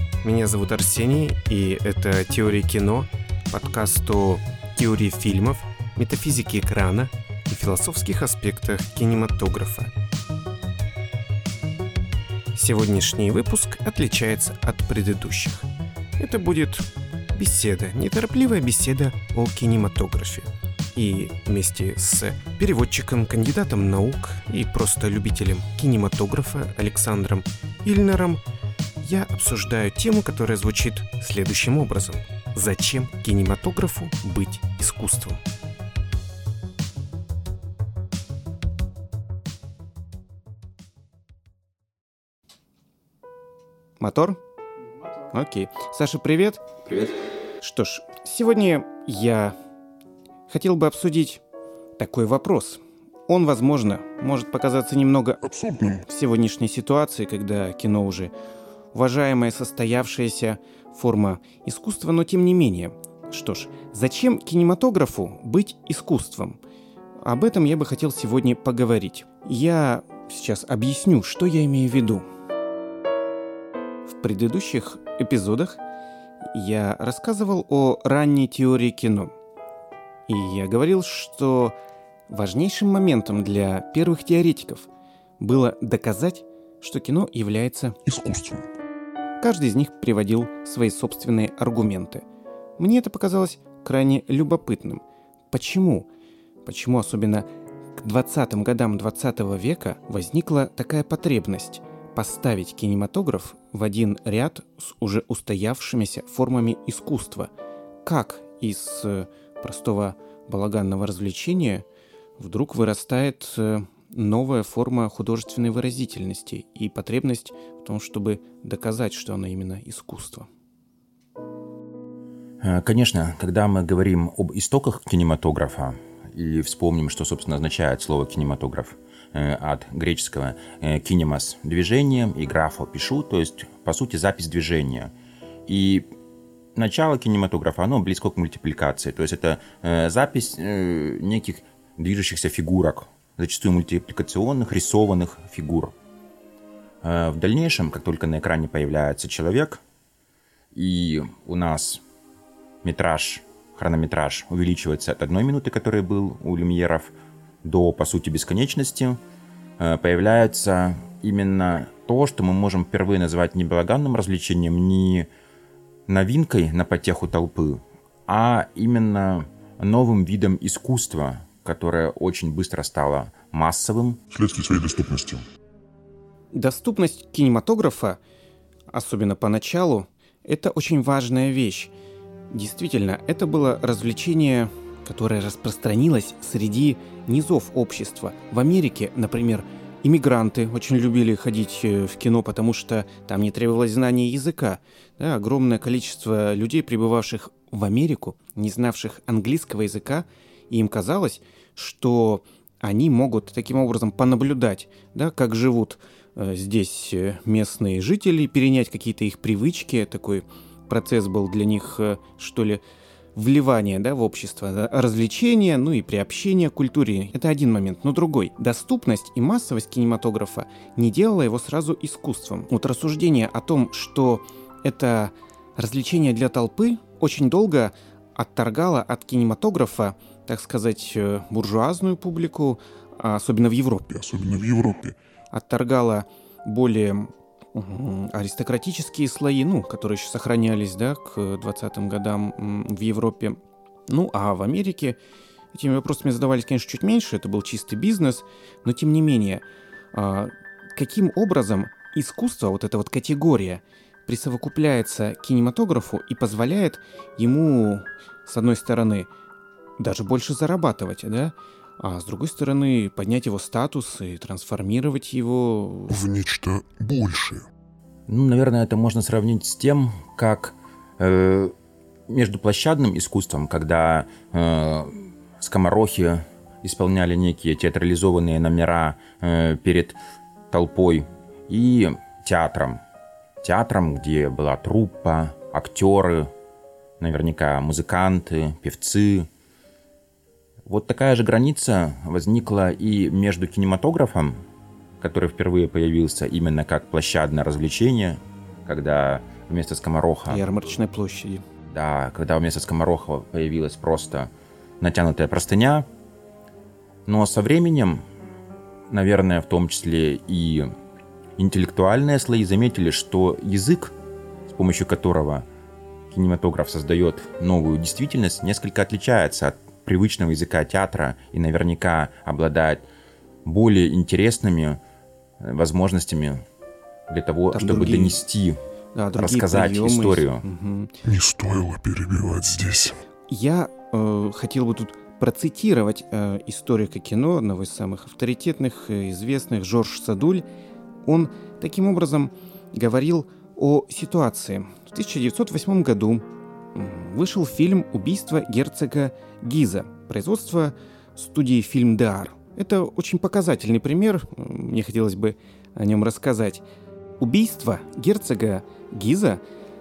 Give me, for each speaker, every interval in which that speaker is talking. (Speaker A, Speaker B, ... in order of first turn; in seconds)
Speaker A: 0.2-9.9, 12.5-28.4, 29.0-35.4, 44.0-44.4, 45.3-46.6, 47.6-49.5, 50.5-51.4, 52.0-55.4, 56.0-58.3, 58.9-66.6, 67.2-72.2, 74.1-75.8, 76.5-79.3, 80.3-81.8, 82.3-88.0, 89.4-92.2, 92.8-96.1, 96.7-107.5, 108.0-111.8, 112.4-120.5, 176.5-178.2, 178.9-181.9, 182.5-212.8, 213.3-234.1, 235.5-245.2, 245.7-259.3, 260.0-266.1, 300.5-301.6, 327.7-328.4, 329.1-331.1, 333.5-340.6, 341.2-356.8, 357.4-359.6
Speaker B: 55.4-56.0, 88.0-88.7, 174.3-175.4, 234.1-235.2, 266.1-267.6, 331.2-333.1
Speaker C: 122.6-135.1, 135.7-136.1, 136.7-145.9, 147.0-149.8, 150.7-152.0, 152.8-157.1, 157.6-159.2, 159.8-165.3, 166.1-174.2, 268.3-271.7, 272.3-280.2, 280.7-283.0, 283.6-286.5, 287.2-289.5, 290.9-294.6, 295.2-300.6, 301.9-304.5, 305.0-306.1, 307.2-308.2, 309.1-310.9, 311.6-314.1, 314.7-315.6, 316.3-323.0, 323.6-325.0, 325.6-326.6, 327.3-328.8, 329.3-330.6